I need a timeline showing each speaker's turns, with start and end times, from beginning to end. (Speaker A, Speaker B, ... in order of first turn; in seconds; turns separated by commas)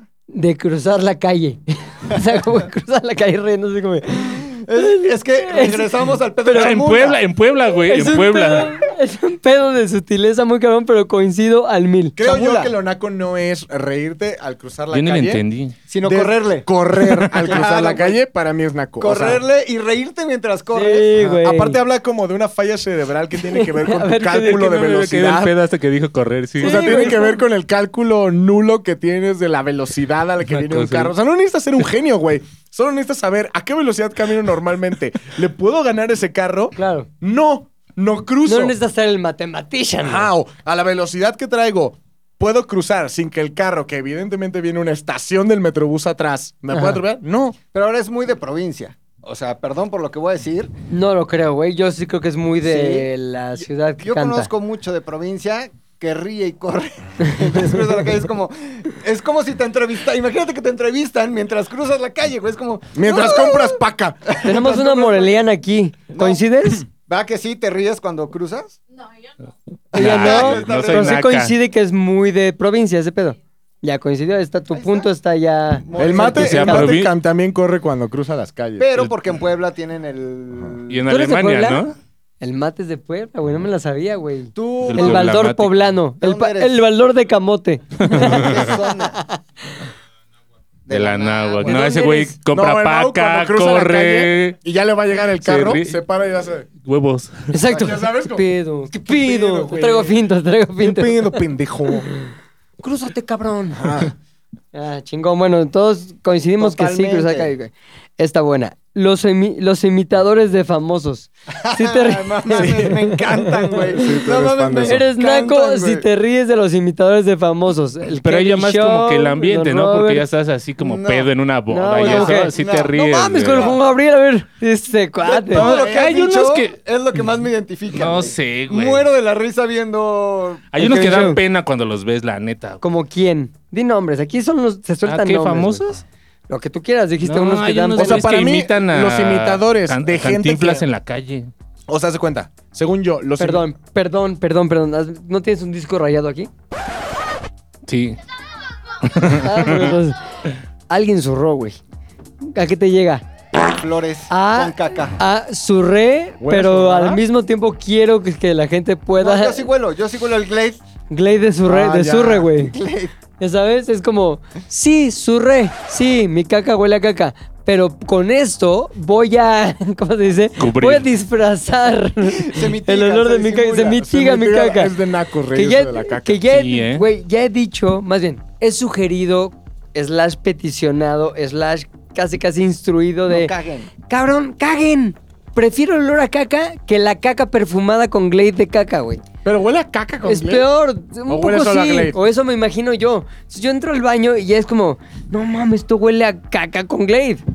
Speaker A: 0.3-5.9, Speaker B: 4.2-7.2, Speaker A: 6.4-6.8, Speaker C: 6.5-8.7, Speaker A: 7.8-12.2, Speaker D: 12.2-15.4, Speaker B: 12.2-12.7, Speaker C: 14.9-15.8, Speaker B: 15.9-16.7, Speaker D: 16.0-19.4, Speaker B: 17.2-18.2, Speaker B: 19.0-21.1, Speaker A: 20.7-21.8, Speaker D: 21.1-25.5, Speaker A: 23.5-24.8, Speaker C: 24.5-26.9, Speaker D: 26.6-38.8, Speaker A: 26.6-27.4, Speaker C: 30.5-31.1, Speaker A: 36.7-37.1, Speaker A: 38.5-40.3, Speaker D: 40.0-47.6, Speaker A: 46.7-47.0, Speaker B: 47.7-50.7, Speaker A: 50.9-54.5, Speaker B: 52.6-65.4, Speaker D: 62.9-64.4, Speaker A: 64.4-66.8, Speaker B: 66.1-68.8, Speaker A: 69.9-77.0, Speaker B: 69.9-71.2, Speaker C: 69.9-71.5, Speaker B: 74.7-75.1, Speaker B: 75.8-76.8, Speaker D: 76.0-79.0, Speaker C: 76.3-77.1, Speaker B: 78.8-81.0, Speaker C: 80.9-82.0, Speaker A: 81.1-81.8, Speaker A: 82.4-89.4, Speaker B: 84.5-85.4, Speaker C: 84.8-85.8, Speaker B: 86.2-86.8, Speaker C: 88.0-88.8, Speaker B: 88.1-89.2, Speaker B: 90.9-91.9, Speaker C: 90.9-94.6, Speaker A: 91.6-92.3, Speaker D: 92.5-96.7, Speaker C: 95.4-96.0, Speaker C: 96.8-97.5, Speaker A: 97.5-101.4, Speaker D: 97.7-100.2, Speaker D: 100.8-102.1, Speaker A: 102.8-104.1, Speaker D: 103.7-104.1, Speaker A: 104.7-113.5, Speaker B: 106.6-107.5, Speaker B: 111.5-116.0, Speaker D: 112.6-112.8, Speaker D: 113.9-115.0, Speaker A: 114.8-120.2, Speaker C: 118.1-123.8, Speaker B: 120.8-121.3, Speaker A: 121.7-125.7, Speaker B: 122.0-122.9, Speaker B: 123.5-123.8, Speaker B: 125.2-131.3, Speaker C: 125.5-126.8, Speaker C: 127.9-129.1, Speaker C: 130.7-132.8, Speaker A: 130.8-131.4, Speaker A: 132.8-135.9, Speaker C: 135.1-136.0, Speaker A: 136.5-138.3, Speaker C: 137.2-141.5, Speaker D: 137.9-140.8, Speaker D: 141.9-143.7, Speaker A: 143.4-146.5, Speaker C: 147.8-148.2, Speaker C: 149.0-149.9, Speaker A: 149.3-150.2, Speaker A: 150.9-151.8, Speaker A: 152.5-153.2, Speaker B: 153.7-155.2, Speaker A: 154.3-159.7, Speaker D: 156.4-157.2, Speaker B: 159.2-160.8, Speaker A: 161.1-162.7, Speaker D: 161.7-162.5, Speaker B: 162.5-163.1, Speaker A: 163.4-174.9, Speaker C: 170.6-171.1, Speaker B: 172.2-174.0, Speaker D: 174.0-176.4, Speaker A: 175.5-189.2, Speaker C: 176.5-177.0, Speaker B: 183.3-183.9, Speaker D: 189.4-190.7, Speaker A: 190.2-197.4, Speaker D: 191.3-192.2